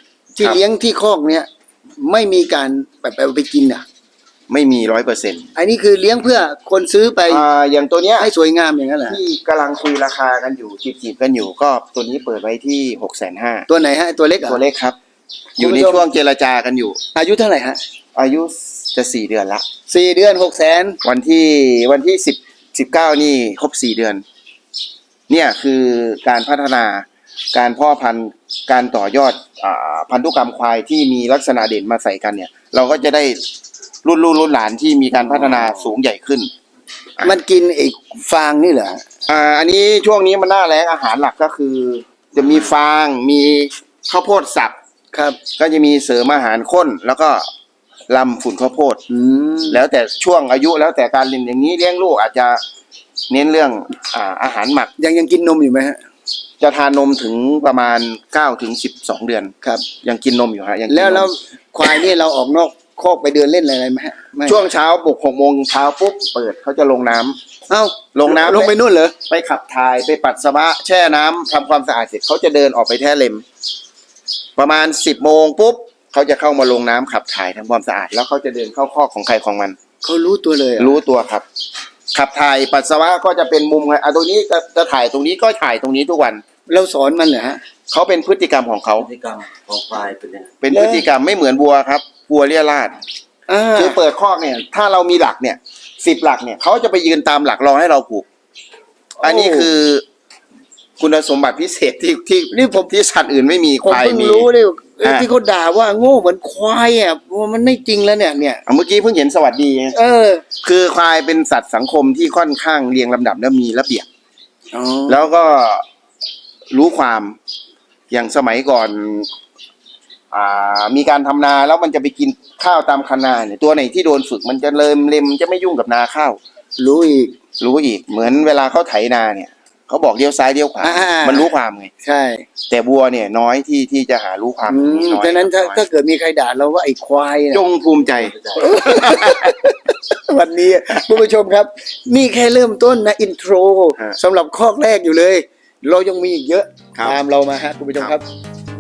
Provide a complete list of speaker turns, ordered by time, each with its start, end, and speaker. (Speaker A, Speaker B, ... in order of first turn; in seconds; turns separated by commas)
Speaker A: 0.3-1.5, Speaker A: 2.0-3.8, Speaker B: 4.5-5.5, Speaker A: 5.5-7.5, Speaker B: 7.3-8.3, Speaker A: 8.2-9.2, Speaker B: 9.1-13.7, Speaker A: 13.7-14.6, Speaker B: 14.4-15.0, Speaker B: 15.6-17.0, Speaker A: 15.6-16.0, Speaker A: 17.1-17.8, Speaker B: 18.1-19.6, Speaker A: 19.9-21.0, Speaker B: 21.0-24.2, Speaker B: 25.3-33.4, Speaker B: 34.0-36.5, Speaker A: 37.2-39.0, Speaker B: 39.3-44.8, Speaker A: 45.1-45.4, Speaker B: 45.6-47.5, Speaker B: 48.1-49.0, Speaker A: 49.1-49.8, Speaker B: 49.7-52.6, Speaker B: 53.3-54.9, Speaker A: 55.0-56.0, Speaker B: 56.6-61.3, Speaker A: 60.9-64.6, Speaker B: 64.5-67.4, Speaker A: 67.7-69.1, Speaker B: 68.1-68.7, Speaker B: 69.3-73.4, Speaker B: 74.6-79.8, Speaker A: 80.0-81.0, Speaker B: 80.8-81.5, Speaker B: 82.1-86.4, Speaker A: 86.7-87.6, Speaker B: 87.9-89.1, Speaker C: 89.0-90.5, Speaker B: 90.6-93.0, Speaker A: 90.7-91.0, Speaker A: 93.5-94.0, Speaker B: 93.7-98.2, Speaker A: 99.2-99.7, Speaker B: 99.2-100.0, Speaker B: 101.0-104.5, Speaker A: 102.5-102.9, Speaker A: 103.8-108.6, Speaker B: 105.0-105.3, Speaker B: 108.7-110.0, Speaker A: 109.9-110.4, Speaker B: 110.6-114.1, Speaker A: 114.7-115.2, Speaker B: 115.1-115.8, Speaker B: 116.7-117.4, Speaker B: 118.1-119.3, Speaker B: 120.3-126.4, Speaker A: 126.8-127.3, Speaker B: 127.6-131.9, Speaker A: 130.8-131.5, Speaker A: 132.0-132.4, Speaker B: 132.7-135.8, Speaker A: 134.7-137.6, Speaker B: 137.5-139.6, Speaker C: 138.2-138.8, Speaker A: 138.6-148.2